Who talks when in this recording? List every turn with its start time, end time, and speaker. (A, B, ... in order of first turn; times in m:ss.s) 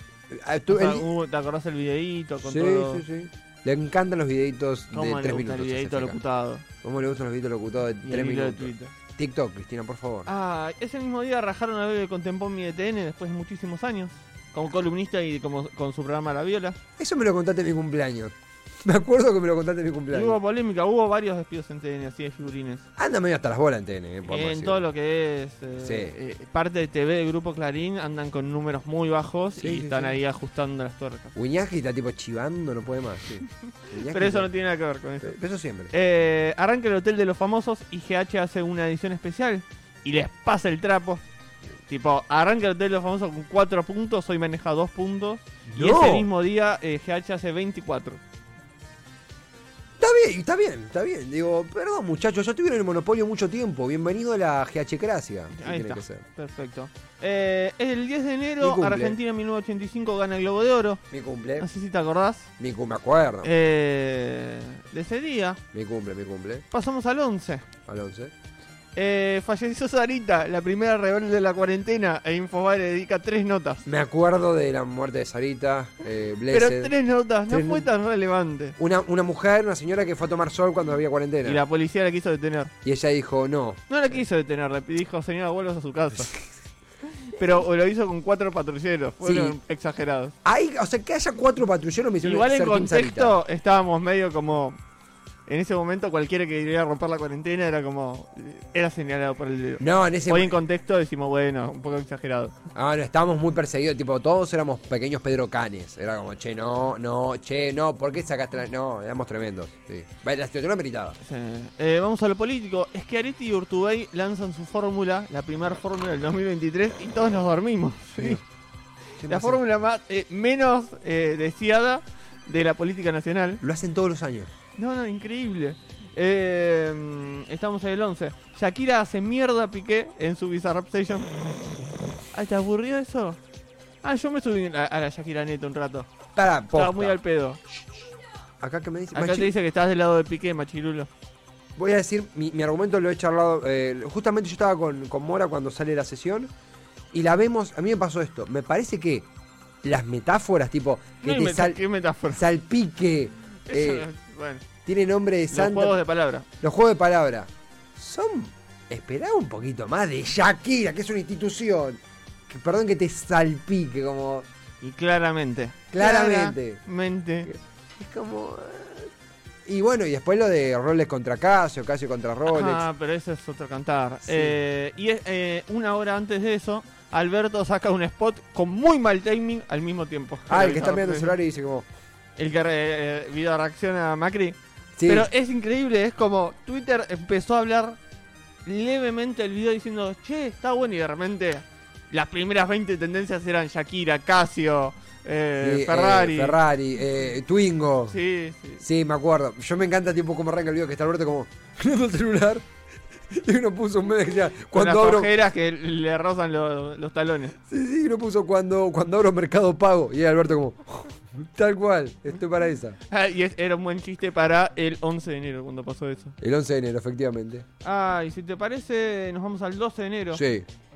0:00.3-0:01.1 A
0:00.7-0:03.0 B
0:02.4-0:06.2 A
0:04.9-0:06.6 B
0:06.8-0:10.3 A
0:08.0-0:08.9 B
0:10.2-0:16.8 B
0:17.0-0:20.4 A
0:20.1-0:22.8 B
0:23.0-0:24.8 A
0:24.3-0:31.3 B
0:25.8-0:26.1 A
0:29.6-0:30.2 A
0:31.3-0:34.5 A
0:34.1-0:35.4 B
0:35.2-0:35.9 A
0:35.9-0:41.2 B
0:41.9-0:48.2 B
0:45.7-0:46.3 A
0:50.0-0:56.2 A
0:55.5-1:01.0 B
0:58.6-0:59.2 A
1:01.1-1:01.7 A
1:01.6-1:02.5 B
1:02.6-1:03.5 A
1:03.4-1:05.6 B
1:05.7-1:06.6 A
1:06.7-1:07.7 B
1:07.8-1:08.3 A
1:09.0-1:13.8 B
1:13.8-1:16.9 A
1:16.5-1:18.8 B
1:17.5-1:17.9 A
1:18.8-1:21.6 A
1:21.4-1:22.7 B
1:22.8-1:23.8 A
1:23.9-1:26.3 B
1:27.2-1:30.3 B
1:29.2-1:29.6 A
1:30.4-1:33.4 A
1:32.2-1:34.8 B
1:35.5-1:42.5 B
1:39.8-1:40.6 A
1:42.7-1:51.2 A
1:51.2-1:58.4 B
1:58.2-1:58.4 A
1:59.2-1:59.6 A
1:59.2-2:03.6 B
2:03.6-2:04.5 A
2:04.8-2:11.5 B
2:12.3-2:13.4 B
2:14.0-2:16.1 B
2:16.3-2:17.2 A
2:16.7-2:17.6 B
2:18.6-2:19.5 A
2:19.1-2:21.1 B
2:21.8-2:26.5 A
2:27.1-2:29.3 A
2:29.8-2:31.8 A
2:31.2-2:32.4 B
2:32.3-2:34.1 A
2:33.7-2:34.6 B
2:34.8-2:36.0 A
2:35.5-2:36.4 B
2:36.6-2:44.5 A
2:44.8-2:47.5 B
2:45.9-2:46.8 A
2:47.4-2:49.1 A
2:49.6-2:52.8 A
2:52.4-3:01.3 B
2:54.2-2:54.6 A
3:00.5-3:01.9 A
3:02.4-3:08.0 B
3:05.0-3:05.3 A
3:08.6-3:16.6 B
3:15.6-3:18.2 A
3:18.1-3:18.8 B
3:18.8-3:22.7 A
3:23.3-3:25.3 A
3:24.7-3:27.6 B
3:27.7-3:33.0 A
3:33.1-3:36.4 B
3:36.4-3:37.6 A
3:37.8-3:40.4 B
3:40.3-3:40.6 A